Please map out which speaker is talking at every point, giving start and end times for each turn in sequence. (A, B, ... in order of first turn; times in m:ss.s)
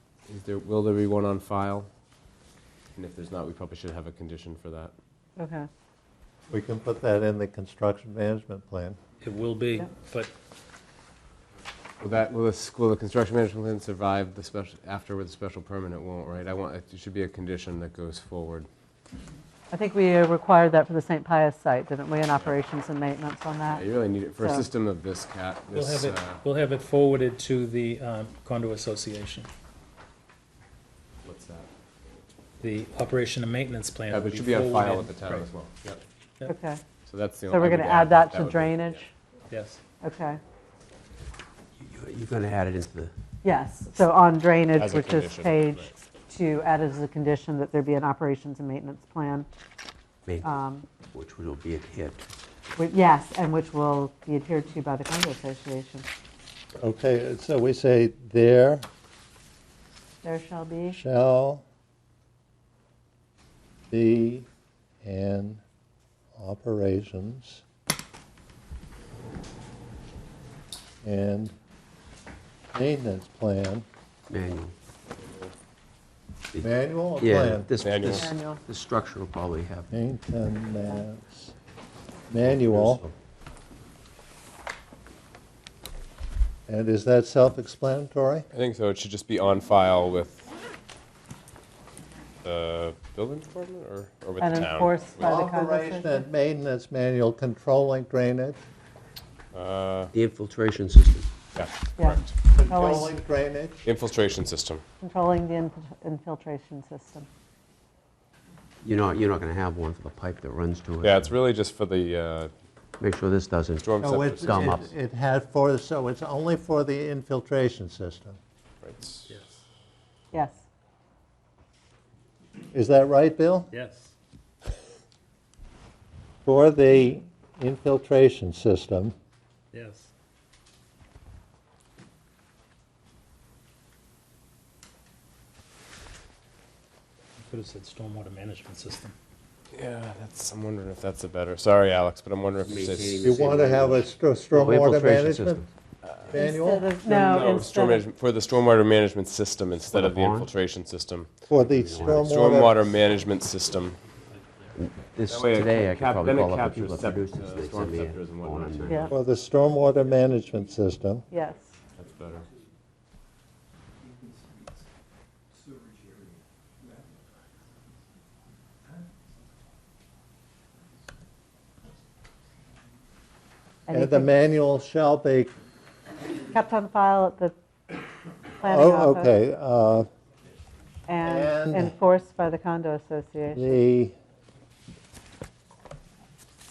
0:00.2-0:01.9 A
0:03.0-0:04.9 A
0:05.4-0:05.7 B
0:06.5-0:09.0 C
0:09.2-0:10.3 D
0:12.0-0:18.7 A
0:19.7-0:23.8 B
0:23.7-0:26.4 A
0:24.4-0:24.7 B
0:25.7-0:29.5 D
0:31.2-0:31.7 A
0:32.6-0:35.5 D
0:34.1-0:36.0 A
0:36.4-0:36.8 B
0:37.0-0:39.0 A
0:37.5-0:39.1 B
0:39.5-0:39.8 D
0:40.0-0:40.4 B
0:41.8-0:43.1 E
0:43.4-0:49.5 B
0:44.8-0:45.9 A
0:50.4-0:50.9 B
0:51.1-0:52.3 E
0:52.8-0:56.1 B
0:56.8-0:58.9 C
1:00.2-1:01.0 B
1:00.9-1:01.6 C
1:03.9-1:04.5 C
1:05.0-1:05.6 C
1:06.4-1:07.6 C
1:11.0-1:11.5 C
1:12.7-1:13.8 C
1:14.3-1:14.7 E
1:16.5-1:19.9 E
1:16.6-1:17.7 C
1:17.8-1:18.3 A
1:18.1-1:18.6 B
1:19.9-1:21.5 C
1:22.3-1:23.0 C
1:22.3-1:23.1 E
1:26.7-1:28.5 C
1:28.5-1:30.5 A
1:32.4-1:35.4 A
1:34.4-1:36.3 B
1:35.2-1:38.6 C
1:39.5-1:40.1 A
1:40.1-1:41.3 E
1:41.5-1:42.3 A
1:42.0-1:43.2 B
1:42.5-1:43.8 C
1:43.8-1:44.8 A
1:45.0-1:47.3 B
1:48.8-1:51.3 E
1:51.0-1:52.5 A
1:53.0-1:54.9 E
1:53.8-1:54.8 A
1:54.0-1:58.4 C
1:58.8-1:59.3 A
2:00.3-2:00.6 B
2:02.7-2:03.7 C
2:03.7-2:04.1 D
2:06.4-2:09.1 C
2:09.7-2:10.1 D
2:17.4-2:19.1 D
2:19.7-2:23.5 A
2:22.6-2:25.6 E
2:23.2-2:25.6 C
2:26.0-2:26.4 A
2:26.3-2:26.9 C
2:26.3-2:28.0 B
2:27.0-2:31.3 A
2:29.9-2:30.5 E
2:31.5-2:32.9 C
2:31.7-2:32.4 E
2:32.0-2:34.0 A
2:34.4-2:34.7 D
2:34.8-2:39.2 E
2:35.2-2:39.1 A
2:39.1-2:41.2 C
2:41.3-2:41.7 B
2:42.0-2:42.5 A
2:53.9-2:54.3 B
2:53.9-2:55.5 C
2:56.5-2:57.5 B
2:58.6-2:59.3 B
2:58.6-3:00.1 C
3:01.1-3:03.7 B
3:01.2-3:01.9 C
3:03.5-3:04.1 C